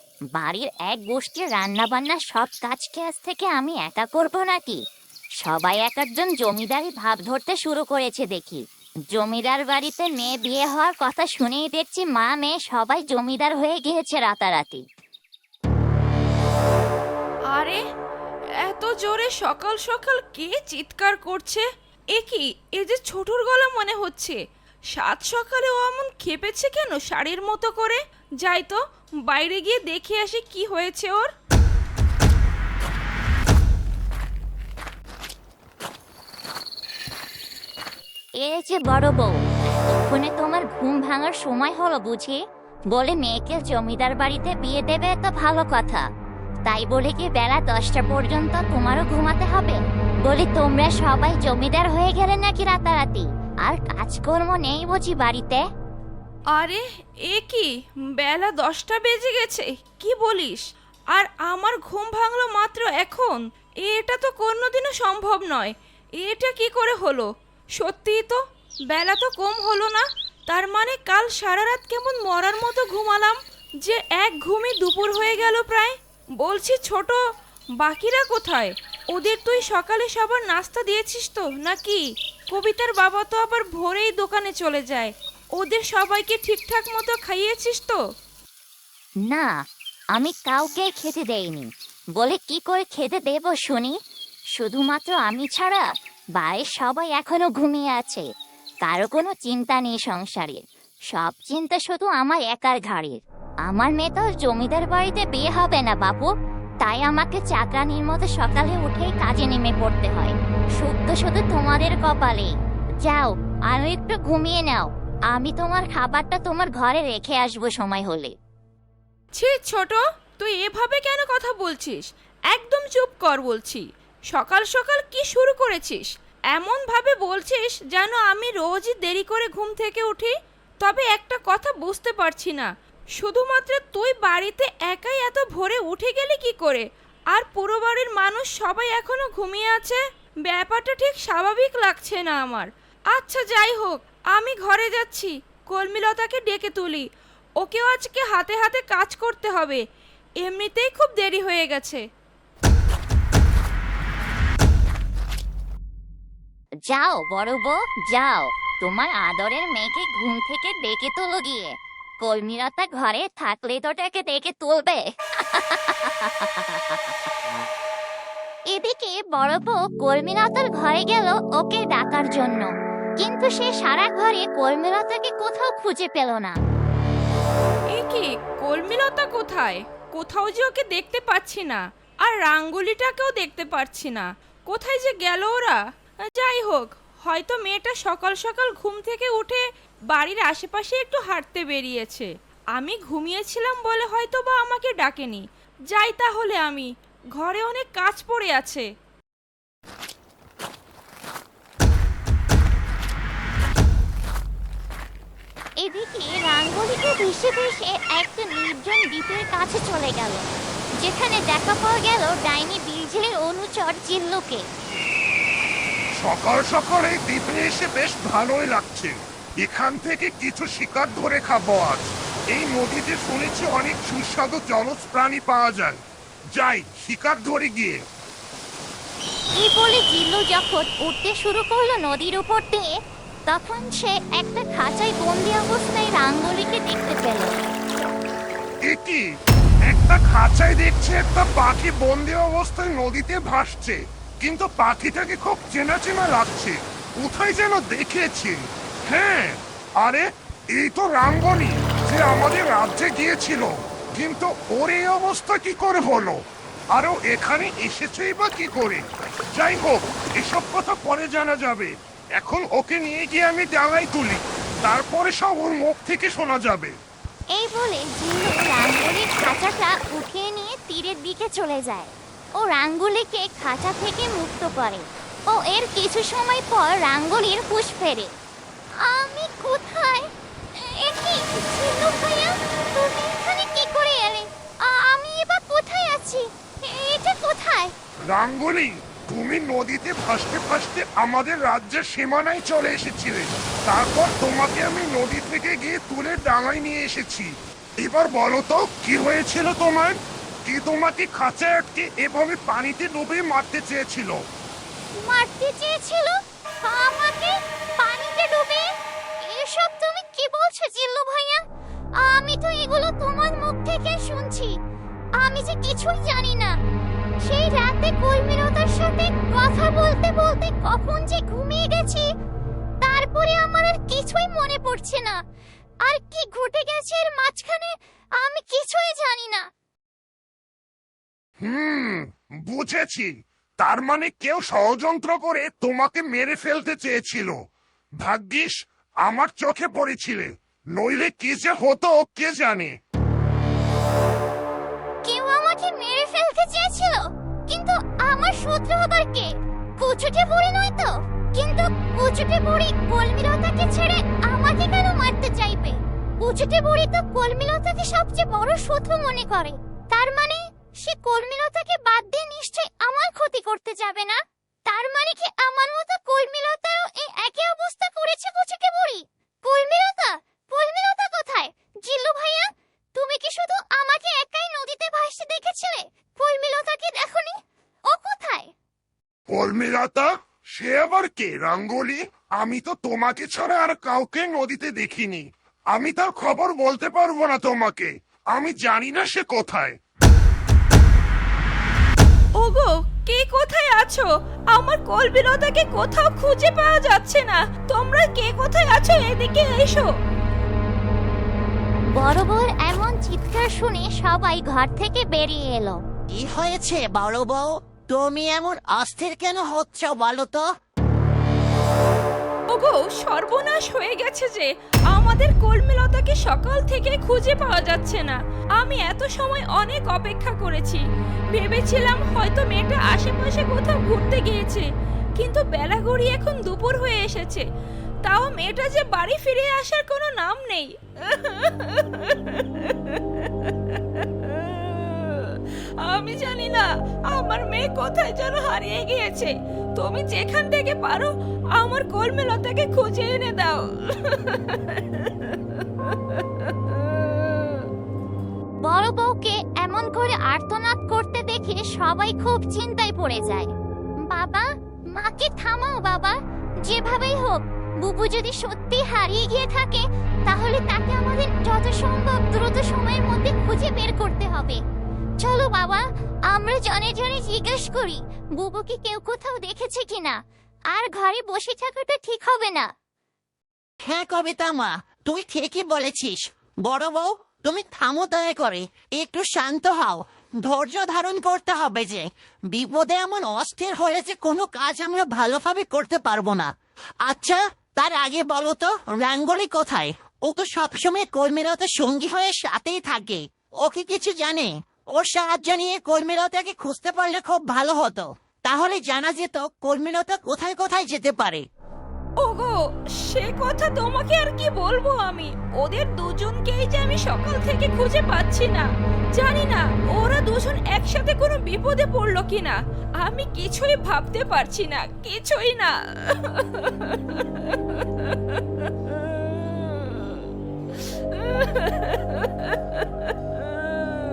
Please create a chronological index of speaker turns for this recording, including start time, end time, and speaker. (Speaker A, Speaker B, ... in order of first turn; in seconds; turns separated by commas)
Speaker A: 0.3-4.8, Speaker A: 5.4-8.6, Speaker A: 9.1-14.8, Speaker B: 17.5-17.8, Speaker B: 18.7-24.4, Speaker B: 24.9-31.3, Speaker A: 38.4-42.4, Speaker A: 42.9-46.0, Speaker A: 46.7-55.6, Speaker B: 56.5-60.6, Speaker B: 61.1-68.4, Speaker B: 68.9-77.2, Speaker B: 77.8-88.0, Speaker A: 89.3-89.5, Speaker A: 90.2-94.0, Speaker A: 94.6-95.9, Speaker A: 96.4-98.3, Speaker A: 98.8-100.6, Speaker A: 101.1-106.3, Speaker A: 106.8-118.3, Speaker B: 119.3-147.0, Speaker B: 147.6-149.8, Speaker B: 150.4-152.0, Speaker A: 156.9-167.0, Speaker A: 168.7-176.6, Speaker B: 177.9-198.9, Speaker A: 205.8-210.5, Speaker A: 211.0-214.6, Speaker C: 216.2-226.0, Speaker C: 226.6-228.0, Speaker A: 229.6-232.9, Speaker A: 233.5-237.6, Speaker C: 238.9-239.2, Speaker C: 239.9-248.6, Speaker C: 249.1-256.4, Speaker C: 256.9-266.9, Speaker A: 267.6-278.3, Speaker A: 279.0-287.9, Speaker C: 288.3-297.5, Speaker C: 298.0-304.4, Speaker A: 305.2-308.9, Speaker A: 309.4-311.6, Speaker A: 312.2-314.7, Speaker A: 315.4-316.8, Speaker A: 317.4-322.3, Speaker A: 323.0-325.4, Speaker A: 326.1-329.7, Speaker C: 331.6-337.6, Speaker C: 338.2-338.7, Speaker C: 339.2-342.9, Speaker A: 345.2-377.6, Speaker A: 378.1-378.7, Speaker C: 379.5-389.9, Speaker B: 392.6-400.1, Speaker A: 402.1-406.0, Speaker D: 406.3-410.7, Speaker B: 412.7-421.0, Speaker B: 421.5-424.9, Speaker B: 425.4-427.7, Speaker B: 428.2-447.8, Speaker A: 448.8-453.7, Speaker A: 454.2-464.8, Speaker A: 465.4-470.4, Speaker A: 470.9-472.9, Speaker D: 474.0-486.7, Speaker D: 487.2-501.6, Speaker B: 502.4-520.4, Speaker B: 521.3-523.0